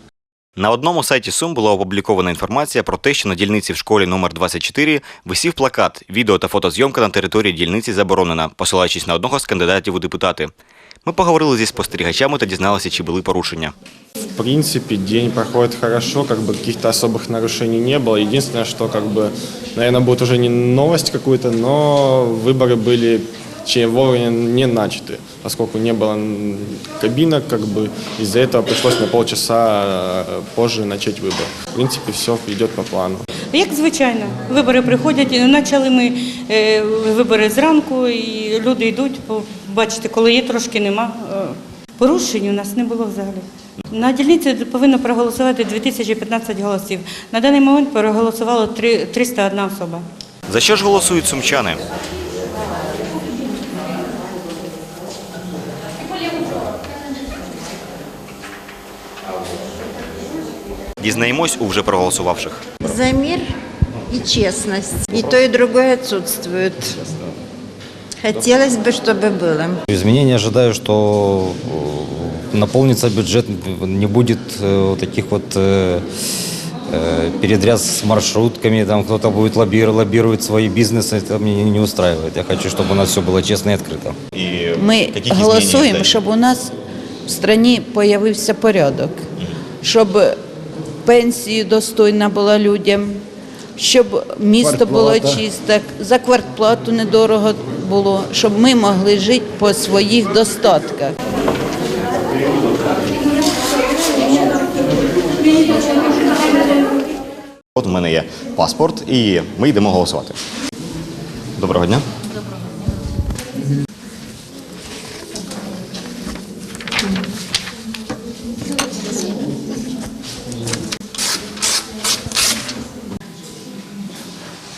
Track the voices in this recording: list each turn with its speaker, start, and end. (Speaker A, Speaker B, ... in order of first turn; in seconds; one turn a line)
Speaker A: 0.6-10.5
Speaker A: 11.0-13.7
Speaker B: 14.4-33.2
Speaker C: 33.5-50.0
Speaker A: 50.5-51.8
Speaker A: 61.0-62.9
Speaker D: 62.8-63.5
Speaker D: 64.1-67.2
Speaker D: 68.2-69.8
Speaker E: 69.9-76.0
Speaker E: 76.9-84.2
Speaker A: 84.3-86.2
Speaker F: 84.8-86.7
Speaker F: 87.2-89.2
Speaker F: 89.8-90.3
Speaker F: 91.0-93.2
Speaker F: 93.8-101.2
Speaker A: 107.8-110.4
Speaker A: 111.6-112.0